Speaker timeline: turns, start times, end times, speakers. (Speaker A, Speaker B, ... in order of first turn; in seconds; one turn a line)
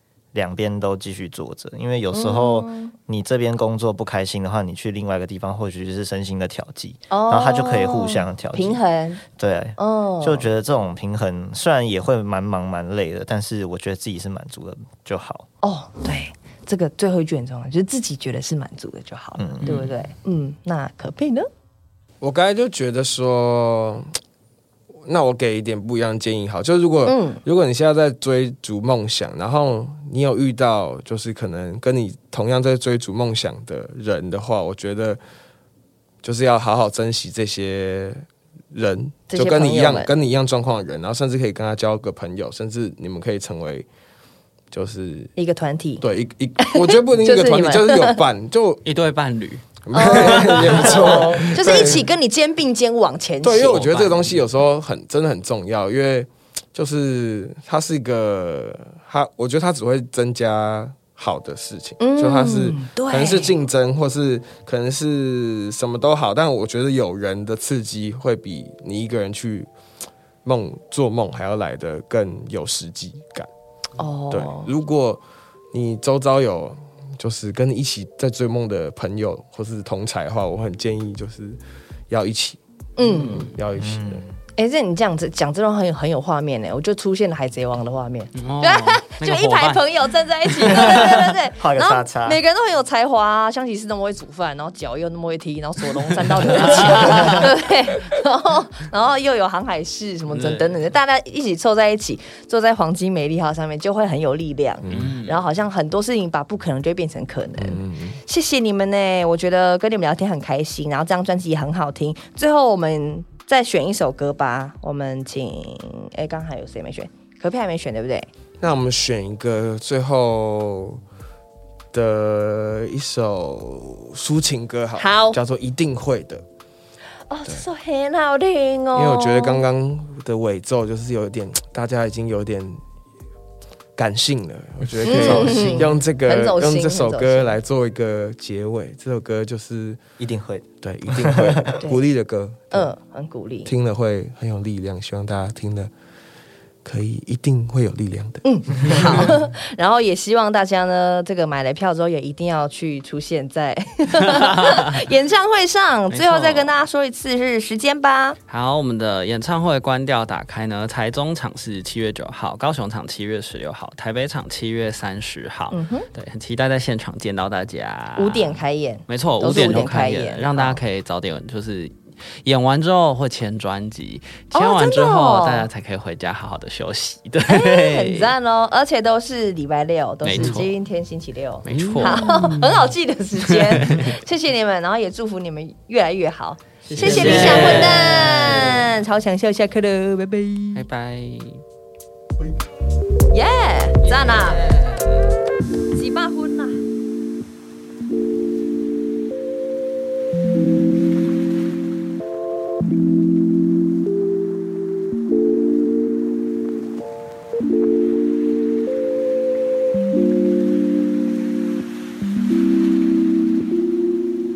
Speaker A: 0.3-15.5
Speaker B: 2.1-2.9
Speaker B: 7.1-9.2
Speaker B: 9.8-10.5
Speaker B: 15.6-21.5
Speaker A: 19.4-19.7
Speaker C: 19.6-20.0
Speaker D: 22.2-24.1
Speaker D: 25.1-35.2
Speaker B: 27.1-27.4
Speaker D: 36.2-43.9
Speaker B: 39.3-40.1
Speaker D: 44.7-45.3
Speaker B: 45.4-46.0
Speaker D: 46.0-48.8
Speaker B: 46.6-48.2
Speaker C: 48.9-51.5
Speaker D: 49.9-52.1
Speaker B: 49.9-53.9
Speaker D: 53.4-69.7
Speaker C: 53.6-54.5
Speaker B: 62.0-63.5
Speaker D: 70.5-73.5
Speaker B: 74.0-74.7
Speaker D: 74.3-75.2
Speaker D: 75.7-81.6
Speaker D: 82.1-82.6
Speaker B: 83.0-83.5
Speaker D: 83.1-84.2
Speaker A: 83.8-84.3
Speaker B: 84.6-118.3
Speaker C: 88.4-89.8
Speaker C: 90.6-90.9
Speaker A: 90.7-92.4
Speaker C: 96.2-97.5
Speaker A: 97.0-97.4
Speaker C: 100.3-100.8
Speaker D: 104.8-105.2
Speaker C: 104.9-105.4
Speaker D: 107.6-108.2
Speaker D: 118.6-121.0
Speaker D: 121.9-126.4
Speaker B: 125.0-125.4
Speaker B: 127.3-129.6
Speaker D: 128.9-132.8
Speaker D: 134.0-140.0
Speaker B: 135.0-137.6
Speaker C: 135.1-135.8
Speaker A: 140.2-141.8
Speaker D: 140.8-142.9
Speaker B: 142.7-143.7
Speaker D: 143.7-145.9
Speaker D: 146.8-149.3
Speaker B: 148.4-158.4
Speaker C: 154.3-154.8
Speaker C: 156.1-156.7
Speaker C: 158.5-178.3
Speaker B: 165.7-166.1
Speaker B: 168.2-170.8
Speaker B: 174.5-175.7
Speaker B: 177.5-190.8
Speaker C: 180.2-180.7
Speaker C: 181.7-182.6
Speaker D: 181.7-182.6
Speaker C: 183.4-184.1
Speaker A: 186.9-187.8
Speaker C: 186.9-188.9
Speaker C: 190.8-191.6
Speaker B: 193.3-194.8
Speaker C: 194.0-195.3
Speaker B: 195.9-196.8